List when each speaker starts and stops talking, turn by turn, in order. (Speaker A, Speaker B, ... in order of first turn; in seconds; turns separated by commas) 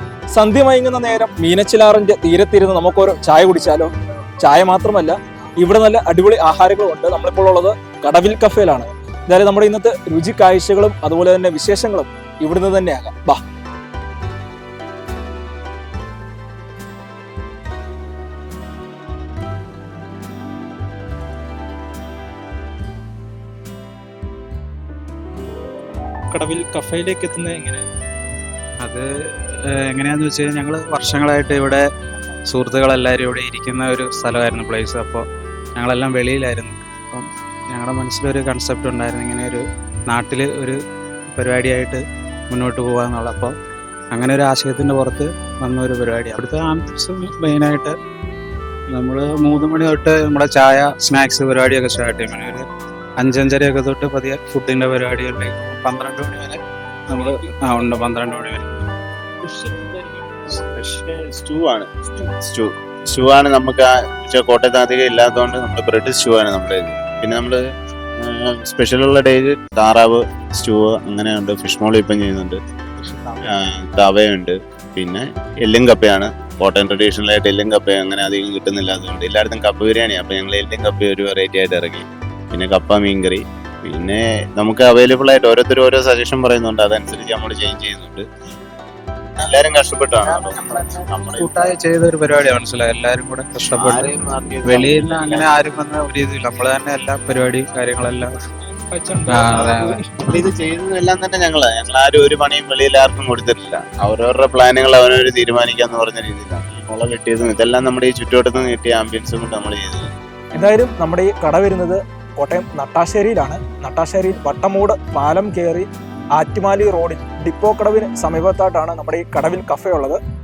Speaker A: 0.3-3.9, Speaker A: 4.4-13.4, Speaker A: 26.3-27.8, Speaker B: 28.8-31.8, Speaker B: 32.5-35.2, Speaker B: 35.8-40.8, Speaker B: 41.3-43.5, Speaker B: 44.1-47.9, Speaker B: 48.9-52.6, Speaker B: 53.2-56.6, Speaker B: 57.1-58.8, Speaker B: 59.5-59.9, Speaker C: 60.6-67.6, Speaker C: 68.2-72.6, Speaker B: 73.0-73.6, Speaker C: 73.5-88.2, Speaker C: 89.4-91.7, Speaker B: 91.4-98.3, Speaker C: 93.7-95.6, Speaker A: 98.9-100.0, Speaker B: 99.3-100.0, Speaker C: 100.3-110.1, Speaker A: 110.6-120.2